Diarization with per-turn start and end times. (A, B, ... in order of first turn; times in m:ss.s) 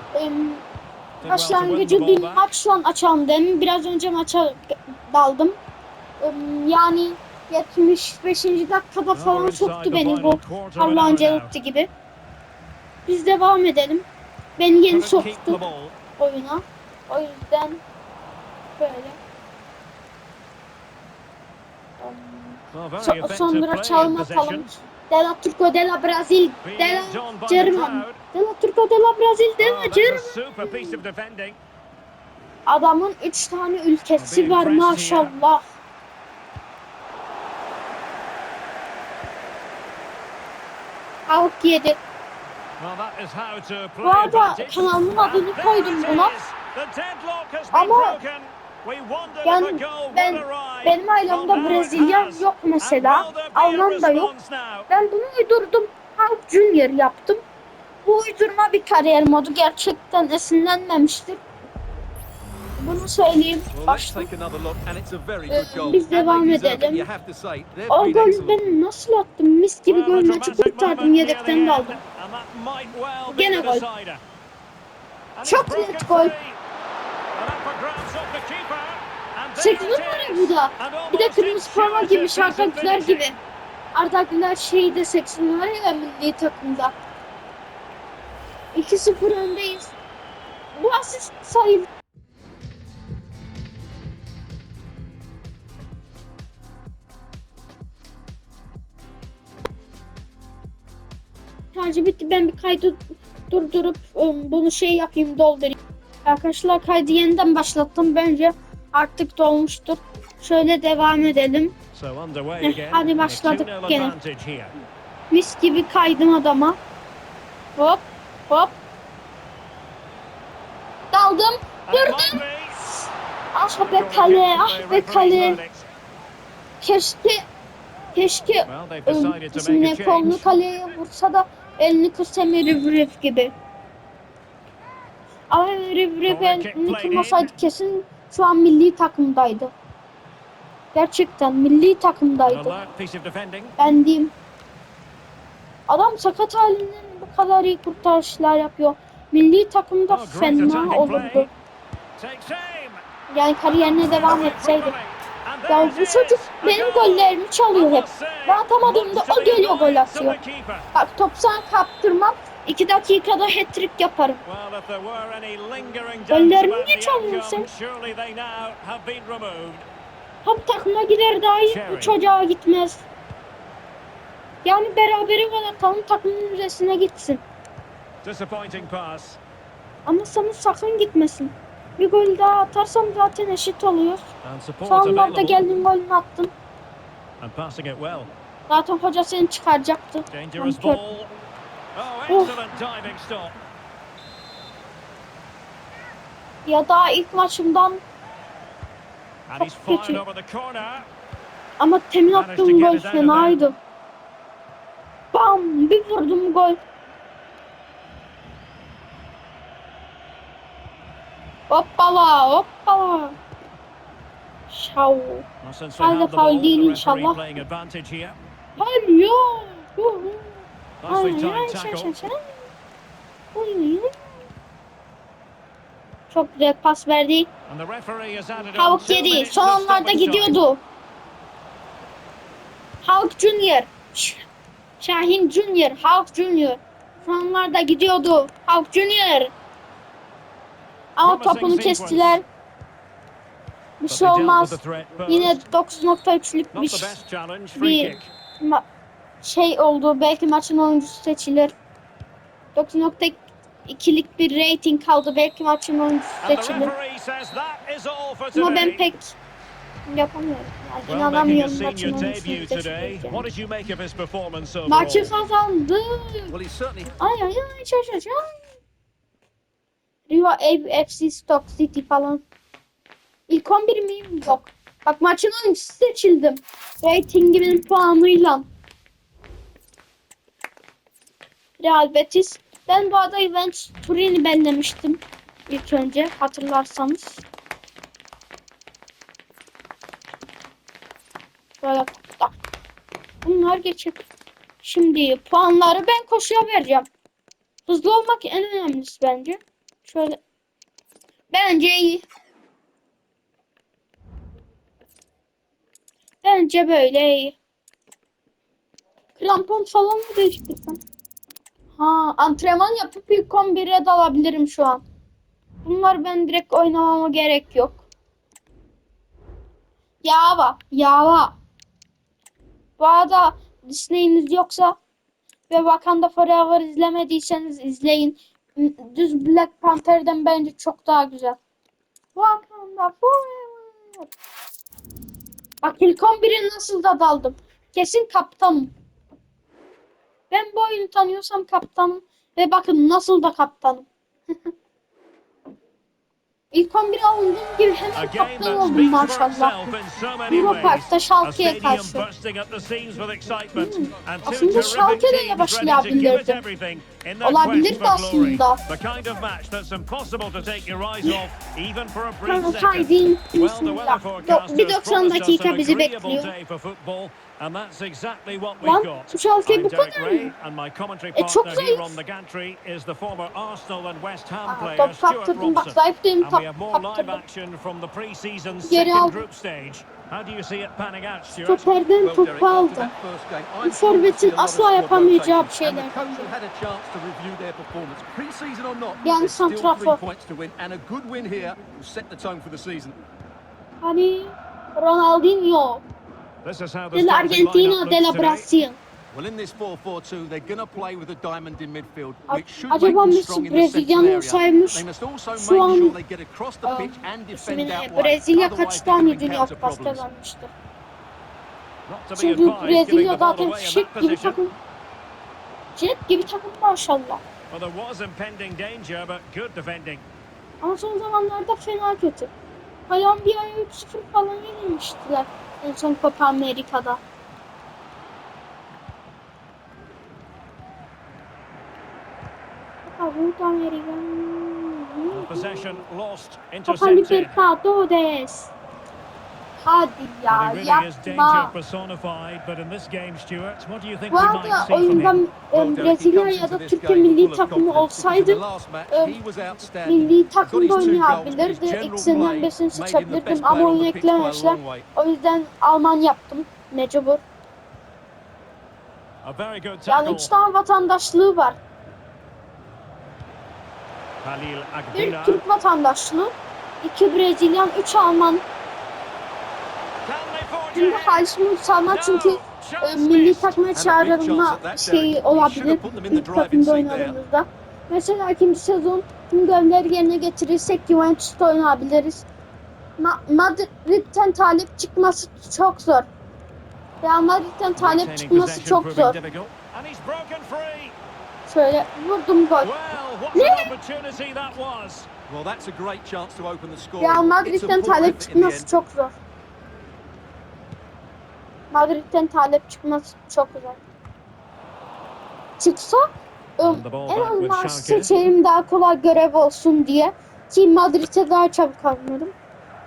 0:00.1-0:00.6 A
0:01.2-0:02.5 B
0:01.2-0:05.6 A
0:06.2-0:11.9 A
0:09.1-0:11.5 B
0:13.0-0:14.0 A
0:14.6-0:15.6 A
0:14.9-0:16.0 B
0:16.2-0:17.8 A
0:18.8-0:19.2 A
0:22.0-0:31.0 A
0:22.7-0:24.7 B
0:26.6-0:28.2 B
0:29.6-0:31.6 B
0:32.6-0:35.6 A
0:34.2-0:35.3 B
0:41.3-0:42.0 A
0:42.8-0:54.9 B
0:44.0-0:46.3 A
0:47.7-0:48.2 A
0:49.4-0:54.3 A
0:54.9-0:57.4 A
0:58.0-1:01.4 A
1:02.8-1:04.3 A
1:03.7-1:08.6 C
1:05.5-1:07.1 A
1:07.9-1:12.0 A
1:09.9-1:14.2 B
1:13.3-1:13.8 A
1:15.3-1:16.6 B
1:15.4-1:16.3 A
1:17.3-1:23.3 B
1:19.6-1:23.4 A
1:23.9-1:26.9 A
1:28.7-1:29.9 A
1:30.8-1:31.9 A
1:41.7-1:51.7 A
1:51.9-1:54.7 B
1:52.6-1:54.1 A
1:55.3-1:56.8 A
1:57.8-1:58.8 A
2:01.1-2:02.4 A
2:01.9-2:02.8 B
2:03.5-2:05.6 A
2:03.7-2:05.9 B
2:06.8-2:07.4 A
2:08.1-2:13.5 A
2:08.7-2:10.5 B
2:15.5-2:19.7 A
2:16.2-2:17.5 B
2:20.9-2:22.7 A
2:22.5-2:23.8 B
2:23.8-2:24.3 A
2:25.9-2:31.5 A
2:30.1-2:31.5 B
2:32.2-2:33.0 B
2:33.3-2:34.9 A
2:33.7-2:40.9 B
2:35.7-2:40.4 A
2:40.9-2:44.4 A
2:44.4-2:49.9 B
2:46.3-2:47.7 A
2:50.4-2:53.0 A
2:51.6-2:52.2 B
2:54.6-2:57.4 A
2:58.2-2:59.4 B
3:00.0-3:04.3 A
3:04.4-3:05.6 B
3:04.8-3:06.5 A
3:07.4-3:08.3 B
3:08.7-3:11.0 A
3:10.3-3:11.3 B
3:11.9-3:13.5 B
3:12.3-3:12.5 A
3:16.6-3:18.0 A
3:19.5-3:21.1 B
3:19.6-3:20.2 A
3:21.8-3:23.8 A
3:22.3-3:23.6 B
3:25.3-3:26.8 A
3:31.7-3:33.3 A
3:34.7-3:35.4 A
3:35.6-3:38.4 B
3:36.0-3:37.4 A
3:38.8-3:42.7 A
3:41.0-3:42.1 B
3:43.5-3:44.2 A
3:46.3-3:47.5 A
3:47.7-3:50.6 B
3:48.8-3:50.8 A
3:53.0-3:54.5 A
3:55.0-3:59.5 A
4:01.2-4:02.4 A
4:01.2-4:02.4 B
4:04.0-4:07.2 A
4:04.1-4:05.6 B
4:06.7-4:08.3 B
4:07.8-4:08.8 A
4:09.4-4:11.7 A
4:12.7-4:16.9 A
4:16.4-4:19.0 B
4:18.5-4:19.4 A
4:20.1-4:23.4 A
4:21.0-4:25.3 B
4:24.9-4:26.5 A
4:26.5-4:27.1 C
4:27.2-4:28.5 A
4:30.3-4:32.4 A
4:33.5-4:38.7 A
4:41.8-4:47.4 A
4:51.8-4:52.5 A
4:53.4-4:54.2 A
4:54.8-4:57.1 A
4:57.9-5:00.4 A
5:01.5-5:02.2 A
5:06.4-5:07.6 A
5:09.4-5:11.0 A
5:12.0-5:15.0 A
5:15.8-5:18.0 A
5:20.2-5:21.5 A
5:23.0-5:25.0 A
5:25.7-5:31.6 A
5:32.3-5:34.3 A
5:35.8-5:38.9 A
5:40.5-5:44.1 A
5:46.7-5:49.9 A
5:48.1-6:21.9 B
5:50.5-5:52.2 A
5:53.7-5:56.6 A
5:57.4-5:58.8 A
6:02.4-6:06.5 A
6:08.8-6:10.5 A
6:11.3-6:12.2 A
6:14.7-6:17.4 A
6:18.8-6:19.4 A
6:21.6-6:23.1 A
6:22.2-6:33.2 C
6:23.8-6:26.4 A
6:29.2-6:30.2 A
6:34.0-6:36.0 A
6:36.6-6:38.7 B
6:37.1-6:39.0 A
6:39.3-6:50.2 C
6:42.5-6:46.2 A
6:46.8-6:50.7 A
6:52.1-6:54.6 B
6:52.4-6:54.7 A
6:56.0-6:57.4 A
6:57.7-7:00.2 B
7:00.8-7:02.5 A
7:03.1-7:07.2 A
7:13.0-7:15.8 A
7:15.3-7:17.6 B
7:16.9-7:18.7 A
7:19.8-7:21.7 A
7:20.5-7:25.4 B
7:24.3-7:29.4 A
7:25.7-7:35.1 C
7:30.0-7:37.4 A
7:39.4-7:40.5 B
7:40.1-7:41.8 A
7:44.4-7:45.6 B
7:45.1-7:48.6 A
7:50.2-7:51.5 B
7:50.9-8:02.5 A
7:52.1-7:53.8 B
7:53.9-7:57.4 C
8:03.2-8:06.3 A
8:07.2-8:09.4 A
8:08.0-8:11.2 B
8:11.6-8:12.9 A
8:12.8-8:15.3 B
8:13.5-8:13.9 A
8:15.5-8:18.9 C
8:17.2-8:19.4 A
8:21.9-8:24.0 A
8:25.8-8:32.5 A
8:26.8-8:28.3 B